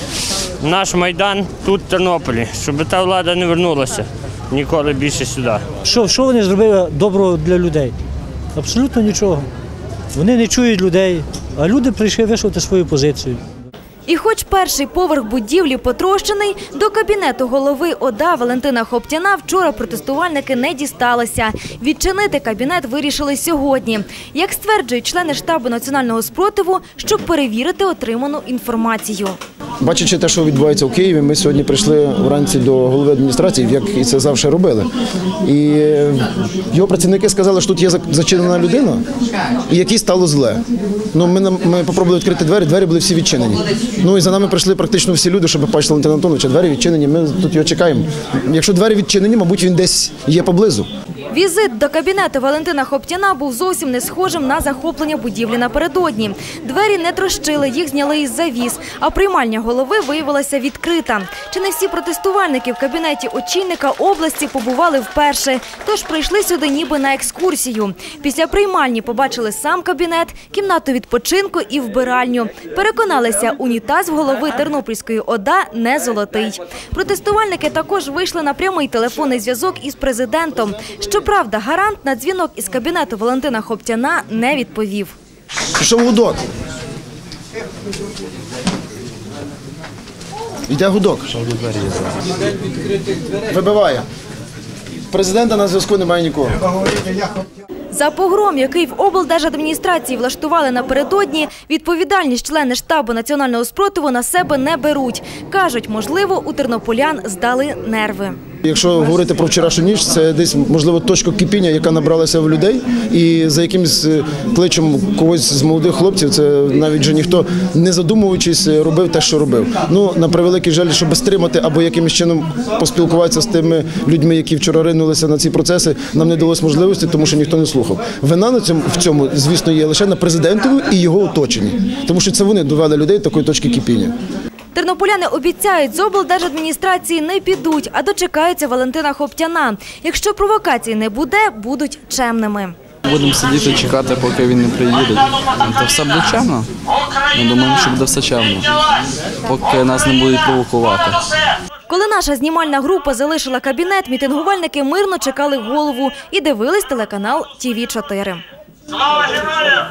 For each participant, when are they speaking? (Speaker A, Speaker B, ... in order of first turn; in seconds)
Speaker A: 0.6-5.6, 159.4-159.7
Speaker B: 5.8-7.9, 8.6-9.5, 10.1-13.4
Speaker C: 14.1-29.4, 51.3-85.2, 97.9-108.4, 134.8-142.8, 151.9-158.4
Speaker D: 29.8-34.9, 35.4-39.0, 39.7-50.9, 85.8-86.4, 90.7-91.3, 93.5-94.0, 95.1-96.6, 108.6-134.2
Speaker E: 91.5-92.1, 143.1-146.7, 147.2-148.8, 149.5-151.3